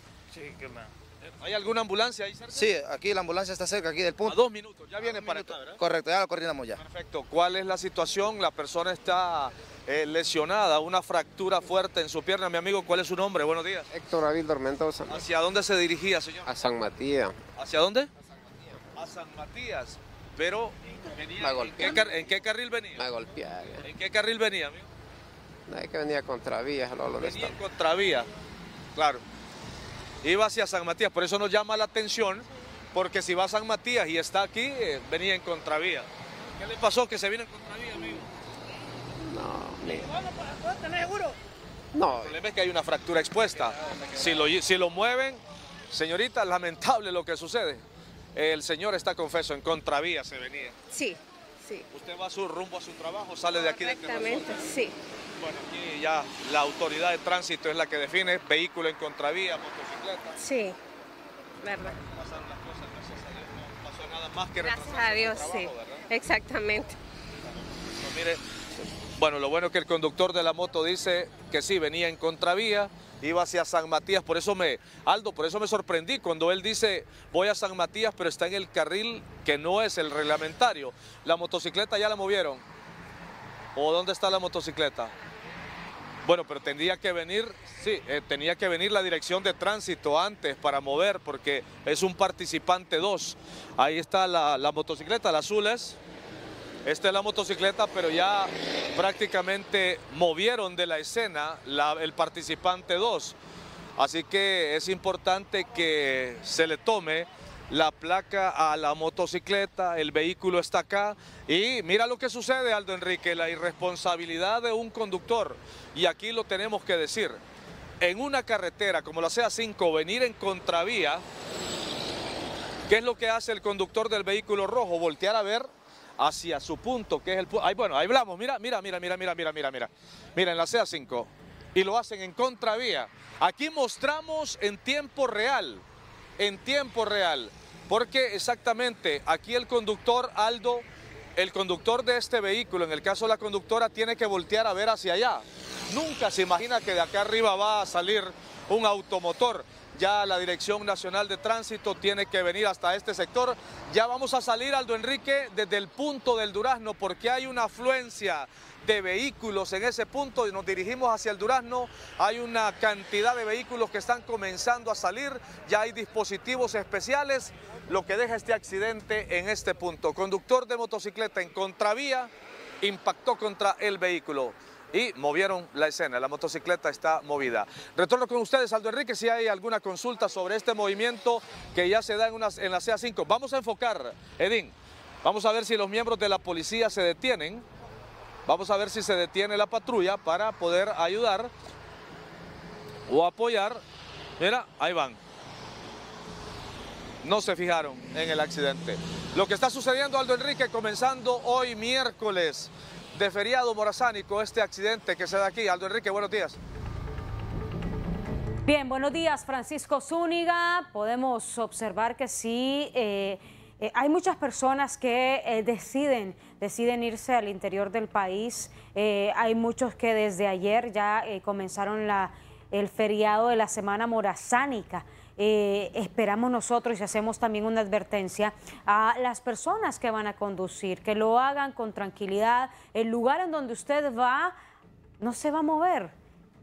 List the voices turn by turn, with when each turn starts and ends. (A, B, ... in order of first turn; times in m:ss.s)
0:01.4-0:02.6 A
0:02.5-0:04.4 B
0:04.2-0:05.8 A
0:05.0-0:06.8 B
0:06.7-0:13.9 A
0:13.9-0:15.2 C
0:15.1-0:16.7 A
0:16.4-0:17.4 C
0:17.6-0:18.1 A
0:18.9-0:23.0 A
0:21.4-0:22.1 C
0:23.0-0:23.9 C
0:23.8-0:24.9 A
0:25.7-0:27.6 C
0:27.2-0:28.3 A
0:28.9-0:29.2 A
0:30.2-0:38.3 A
0:39.2-0:40.7 C
0:41.9-0:42.3 C
0:42.2-0:50.8 A
0:50.9-0:51.8 D
0:51.9-0:54.7 A
0:53.6-0:54.9 D
0:55.4-1:00.4 A
1:00.4-1:00.8 D
1:01.6-1:02.0 D
1:02.0-1:06.0 A
1:04.6-1:07.0 D
1:08.0-1:08.4 A
1:09.1-1:22.6 A
1:23.8-1:25.1 A
1:26.2-1:36.0 A
1:36.8-1:43.4 A
1:44.0-1:57.4 A
1:58.0-2:01.2 A
2:02.9-2:05.7 A
2:06.2-2:15.8 A
2:16.4-2:20.8 A
2:21.4-2:52.3 A
2:52.8-3:07.6 A
3:08.5-3:11.5 A
3:13.1-3:13.8 A
3:14.4-3:15.2 A
3:17.2-3:26.6 A
3:28.6-3:54.5 E
3:55.2-3:56.1 E